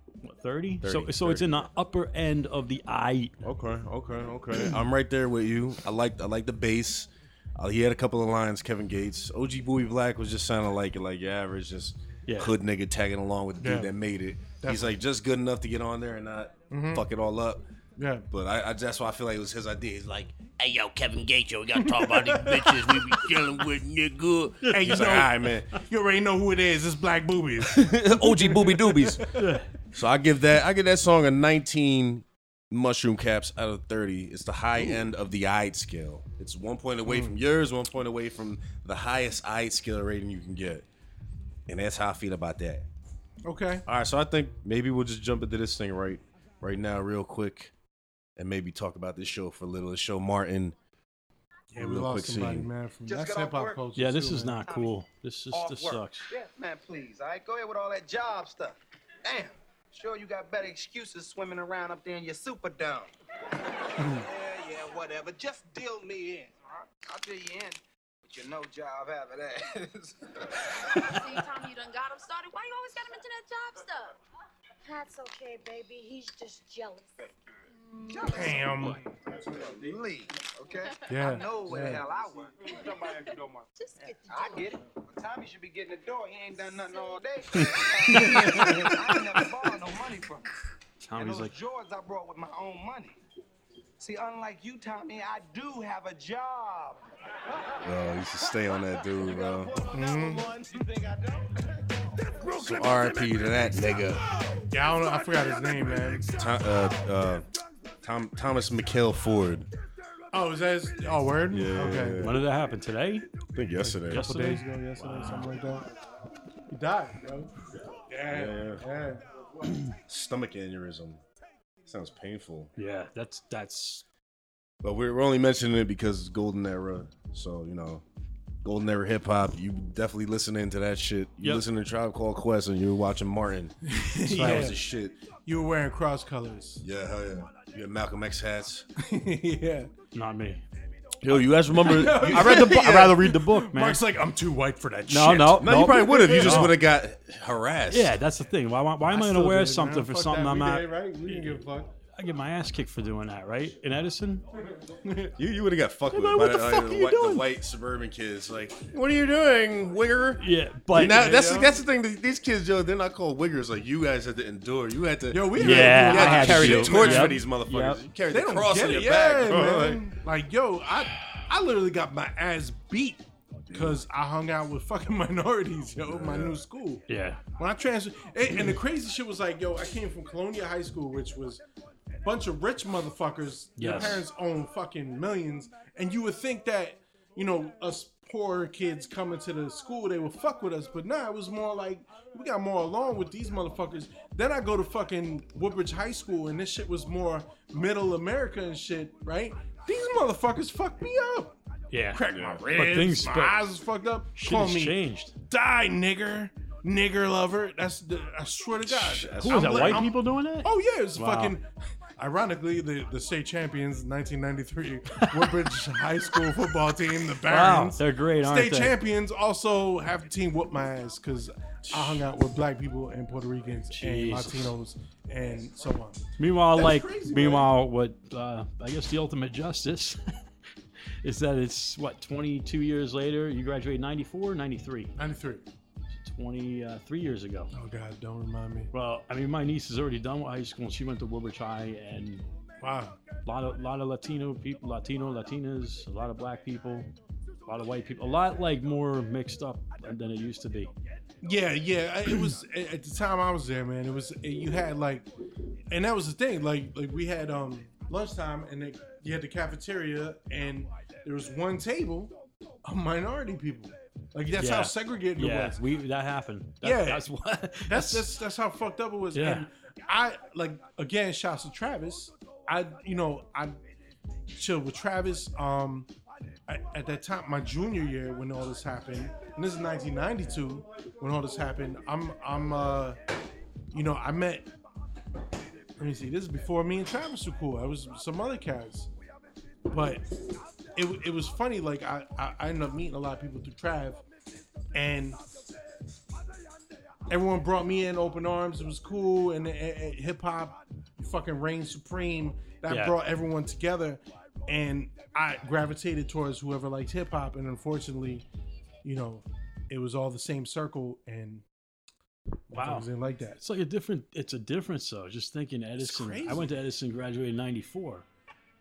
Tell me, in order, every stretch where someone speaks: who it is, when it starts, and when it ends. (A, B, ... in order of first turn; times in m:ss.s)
0:00.2-0:03.3 A
0:00.8-0:01.7 B
0:03.4-0:17.6 B
0:12.3-0:12.5 A
0:13.6-0:13.9 C
0:14.6-0:15.0 C
0:16.7-0:17.1 C
0:18.0-0:18.2 C
0:18.3-0:20.5 B
0:20.5-0:24.6 D
0:21.8-0:23.0 C
0:24.6-0:25.2 A
0:24.7-0:29.2 C
0:24.8-0:25.7 B
0:27.7-0:29.3 B
0:29.3-0:29.7 A
0:29.9-0:40.9 B
0:37.0-0:37.4 C
0:41.7-0:42.9 B
0:43.4-0:43.8 C
0:43.9-0:47.7 B
0:48.4-0:50.8 B
0:51.7-0:54.6 C
0:51.7-0:52.7 B
0:53.1-0:53.8 E
0:54.0-0:56.3 A
0:54.6-0:54.9 E
0:55.5-1:03.1 E
1:04.0-1:10.3 E
1:10.9-1:14.1 F
1:14.8-1:17.4 F
1:18.0-1:18.6 F
1:18.1-1:30.5 E
1:18.2-1:19.0 C
1:21.1-1:22.0 C
1:22.7-1:24.8 F
1:28.1-1:29.0 C
1:28.4-1:28.7 A
1:31.0-1:31.5 A
1:31.1-1:33.2 E
1:34.0-1:37.0 E
1:37.8-1:39.7 B
1:39.2-1:42.6 E
1:39.9-1:40.5 C
1:42.6-1:44.2 B
1:44.7-1:46.2 C
1:46.2-1:47.4 B
1:48.0-1:49.7 B
1:50.3-1:52.3 C
1:51.5-1:52.4 B
1:52.2-1:53.3 A
1:53.6-1:54.2 B
1:53.8-1:55.9 C
1:54.1-1:55.5 A
1:56.7-1:59.2 C
1:58.3-1:58.8 B
2:00.1-2:01.2 B
2:01.9-2:02.7 B
2:02.8-2:04.0 A
2:04.8-2:08.0 B
2:08.6-2:15.2 B
2:13.8-2:14.8 C
2:14.3-2:14.7 A
2:15.4-2:16.8 C
2:16.8-2:18.9 B
2:19.0-2:19.9 C
2:20.1-2:20.6 A
2:21.2-2:23.3 B
2:21.8-2:26.8 C
2:21.9-2:24.0 A
2:25.1-2:26.8 A
2:25.6-2:28.2 B
2:27.9-2:34.4 A
2:29.1-2:31.9 C
2:35.0-2:35.4 C
2:35.4-2:50.0 B
2:36.1-2:37.4 A
2:40.4-2:41.2 A
2:40.9-2:41.7 C
2:45.3-2:47.4 C
2:45.6-2:48.0 A
2:48.3-2:57.0 C
2:53.7-2:54.0 B
2:56.1-2:56.6 B
2:57.1-2:57.4 A
2:57.6-3:01.6 C
3:02.2-3:21.6 C
3:03.8-3:04.2 A
3:21.9-3:23.6 A
3:22.1-3:47.7 C
3:22.3-3:23.1 B
3:24.4-3:25.3 A
3:28.9-3:30.1 B
3:29.4-3:31.6 A
3:35.1-3:35.6 A
3:37.4-3:39.0 A
3:41.9-3:42.2 A
3:43.9-3:44.7 A
3:46.4-3:50.2 A
3:51.2-3:55.1 A
3:55.2-3:55.6 C
3:56.1-3:57.7 A
3:57.7-3:58.9 C
3:58.9-4:02.5 A
4:02.8-4:03.2 C
4:03.4-4:07.1 A
4:07.7-4:10.9 A
4:11.4-4:15.3 C
4:15.9-4:25.8 C
4:24.6-4:28.3 A
4:26.8-4:27.3 C
4:27.9-4:33.8 C
4:29.3-4:29.7 A
4:34.5-4:36.1 C
4:36.7-4:43.2 C
4:43.9-4:44.7 C
4:46.0-4:49.1 C
4:49.9-4:50.3 C
4:51.0-4:54.2 C
4:54.9-4:55.4 C
4:57.3-5:08.4 C
5:02.9-5:03.2 A
5:09.0-5:11.6 C
5:12.7-5:13.6 C
5:12.7-5:18.3 A
5:16.0-5:16.7 C